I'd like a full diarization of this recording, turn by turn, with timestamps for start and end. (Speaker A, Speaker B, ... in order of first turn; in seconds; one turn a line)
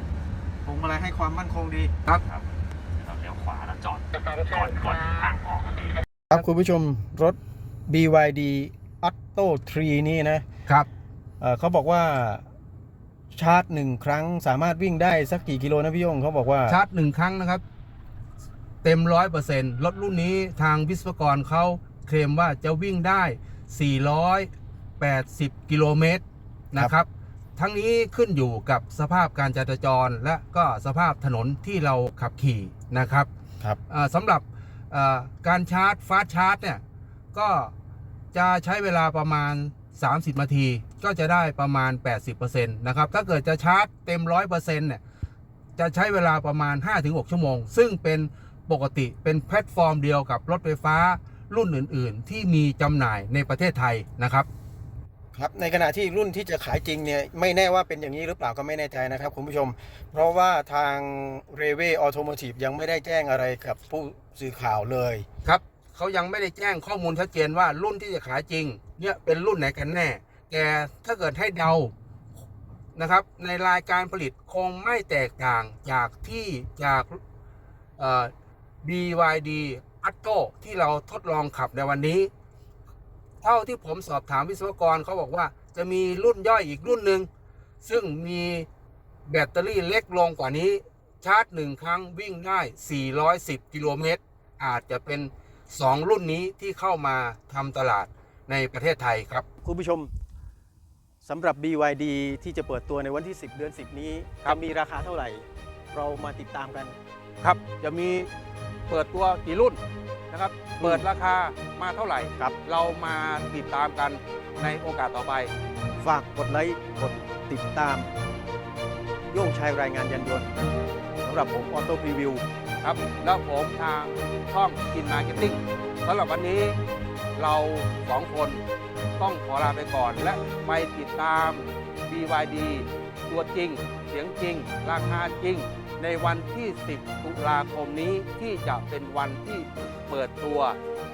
Speaker A: 0.6-1.9
Speaker B: 2.2-6.0
Speaker A: 6.3-10.5
Speaker A: 11.4-12.4
Speaker A: 13.3-16.8
Speaker C: 16.7-17.6
Speaker C: 18.8-33.3
Speaker C: 33.9-36.8
Speaker C: 37.3-37.7
Speaker C: 38.3-45.0
Speaker C: 45.8-54.5
Speaker A: 55.3-65.3
Speaker C: 65.4-71.9
Speaker C: 73.0-77.2
Speaker C: 78.0-78.3
Speaker C: 78.8-82.3
Speaker C: 83.4-87.3
Speaker C: 87.8-88.7
Speaker C: 89.3-99.5
Speaker A: 99.6-100.1
Speaker A: 101.2-107.0
Speaker C: 107.4-108.3
Speaker C: 108.9-109.8
Speaker C: 110.3-115.5
Speaker A: 110.8-111.0
Speaker A: 116.0-118.1
Speaker A: 119.3-120.5
Speaker A: 121.2-122.4
Speaker C: 122.8-126.8
Speaker C: 127.4-128.6
Speaker C: 129.2-140.8